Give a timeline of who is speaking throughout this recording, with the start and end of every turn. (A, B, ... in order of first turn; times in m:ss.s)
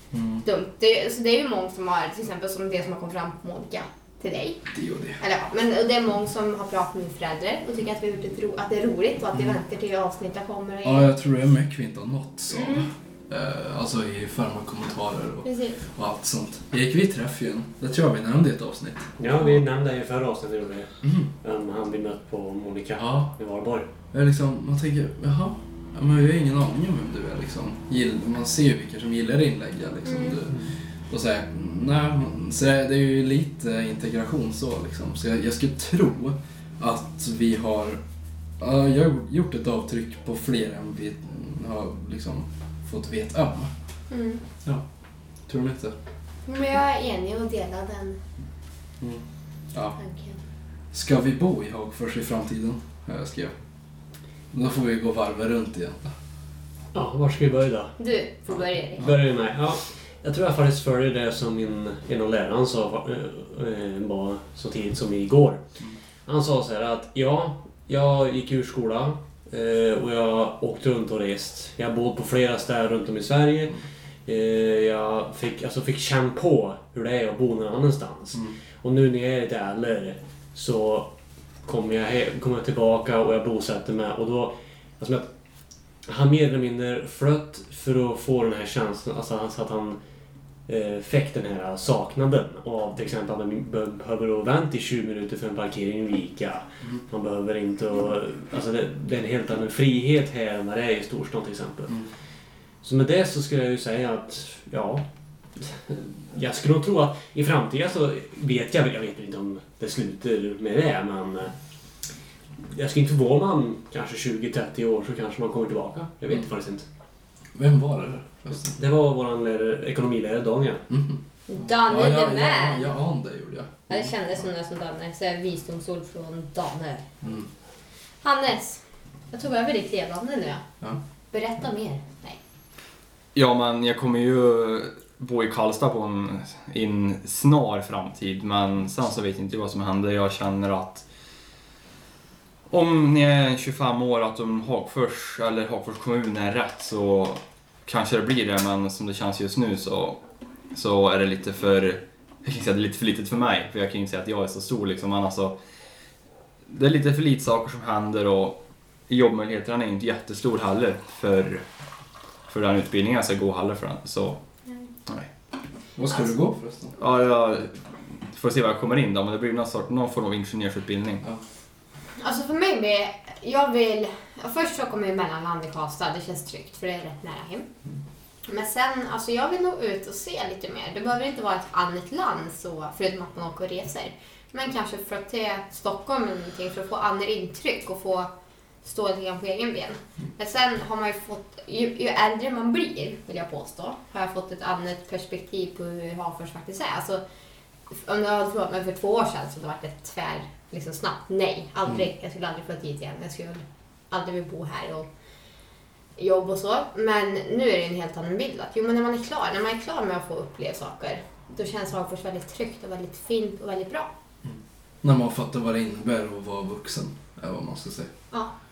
0:00.1-0:00.4 A
0:00.4-0:04.6 B
0:04.7-0:05.2 A
0:05.2-0:11.1 B
0:10.8-0:19.6 A
0:12.5-0:12.9 B
0:15.4-0:15.8 B
0:19.2-0:23.9 C
0:21.0-0:21.3 A
0:23.0-0:23.3 A
0:24.1-0:38.0 A
0:30.1-0:30.4 B
0:38.6-0:43.7 A
0:44.1-0:44.4 B
0:45.5-0:46.0 A
0:46.5-0:48.2 B
0:49.0-0:50.0 A
0:50.0-0:50.4 B
0:50.9-0:53.5 A
0:54.5-0:56.1 A
0:56.9-0:58.0 C
0:58.0-0:59.1 B
0:59.0-1:05.6 C
1:06.3-1:21.1 C
1:21.6-1:25.3 C
1:26.1-1:30.0 C
1:30.7-1:42.0 C
1:42.8-1:45.0 C
1:45.6-1:51.5 C
1:52.6-1:56.9 C
1:57.6-1:58.8 A
1:58.7-2:00.9 C
2:00.9-2:04.1 A
2:01.5-2:02.9 B
2:03.9-2:07.1 B
2:07.2-2:07.5 A
2:08.2-2:10.6 B
2:11.3-2:12.4 B
2:13.4-2:21.0 D
2:22.7-2:30.2 D
2:30.7-2:35.6 D
2:36.7-2:38.6 D
2:39.1-2:41.6 D
2:42.5-2:44.4 D
2:46.0-2:47.0 A
2:47.0-2:51.2 D
2:52.2-2:57.7 B
2:58.5-3:08.3 B
3:08.8-3:17.2 B
3:17.9-3:25.1 B
3:26.2-3:34.1 B
3:34.4-3:38.1 A